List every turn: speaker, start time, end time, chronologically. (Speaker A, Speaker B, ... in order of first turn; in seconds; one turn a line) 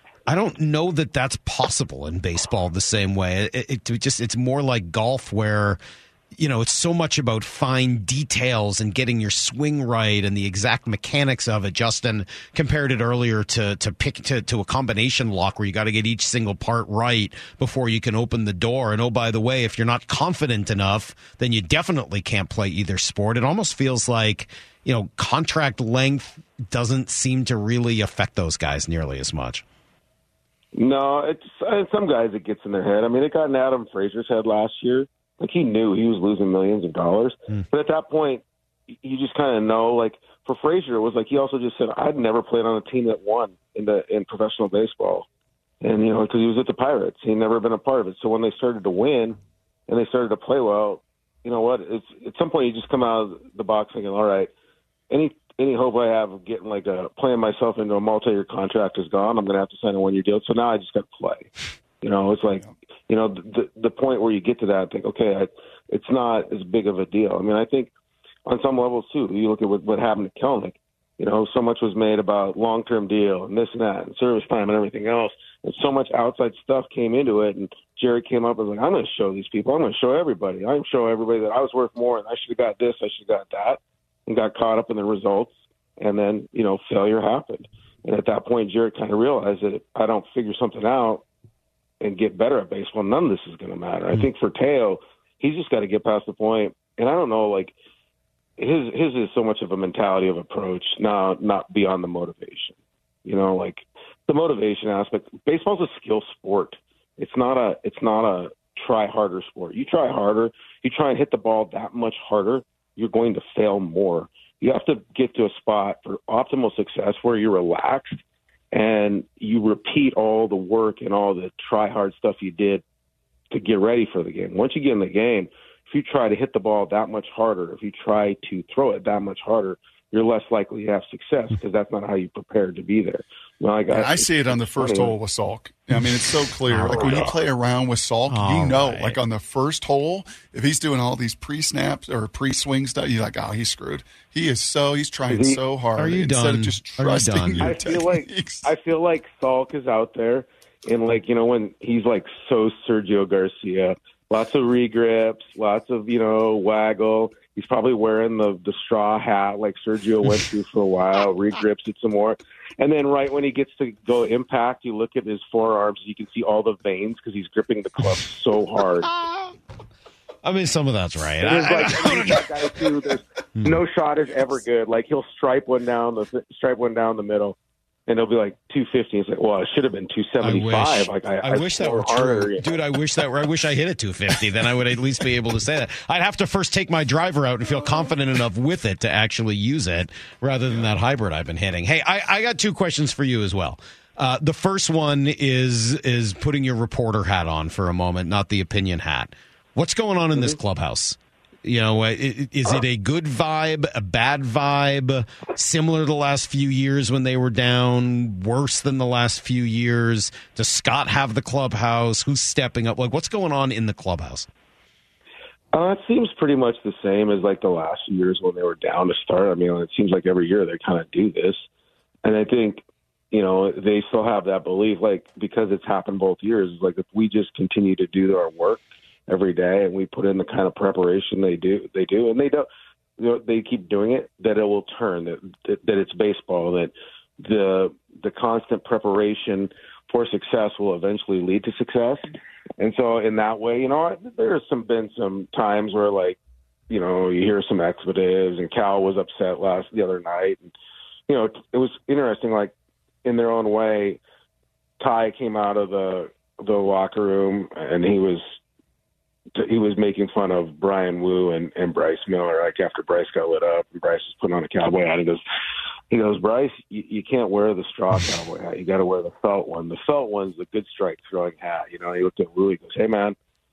Speaker A: 0.3-5.8
Speaker A: 6.3-29.6
Speaker B: 30.8-45.3
Speaker B: 45.8-54.5
Speaker B: 55.1-61.5
Speaker B: 62.0-67.9
Speaker B: 68.5-91.2
Speaker B: 92.0-97.8
Speaker B: 98.6-118.2
Speaker B: 118.7-122.8
Speaker B: 123.5-135.1
Speaker C: 133.9-148.7
Speaker A: 136.7-137.3
Speaker B: 136.9-137.4
Speaker A: 138.3-139.2
Speaker B: 145.3-145.6
Speaker A: 146.0-147.7
Speaker B: 147.6-169.1
Speaker A: 169.1-169.5
Speaker A: 170.4-172.5
Speaker B: 171.4-177.6
Speaker B: 178.1-182.8
Speaker A: 180.4-214.5
Speaker B: 215.7-221.7
Speaker B: 222.2-232.7
Speaker B: 233.2-242.3
Speaker B: 242.8-246.4
Speaker B: 246.9-250.7
Speaker B: 251.3-252.7
Speaker B: 253.2-254.2
Speaker B: 255.0-258.6
Speaker B: 259.6-265.4
Speaker B: 266.1-273.4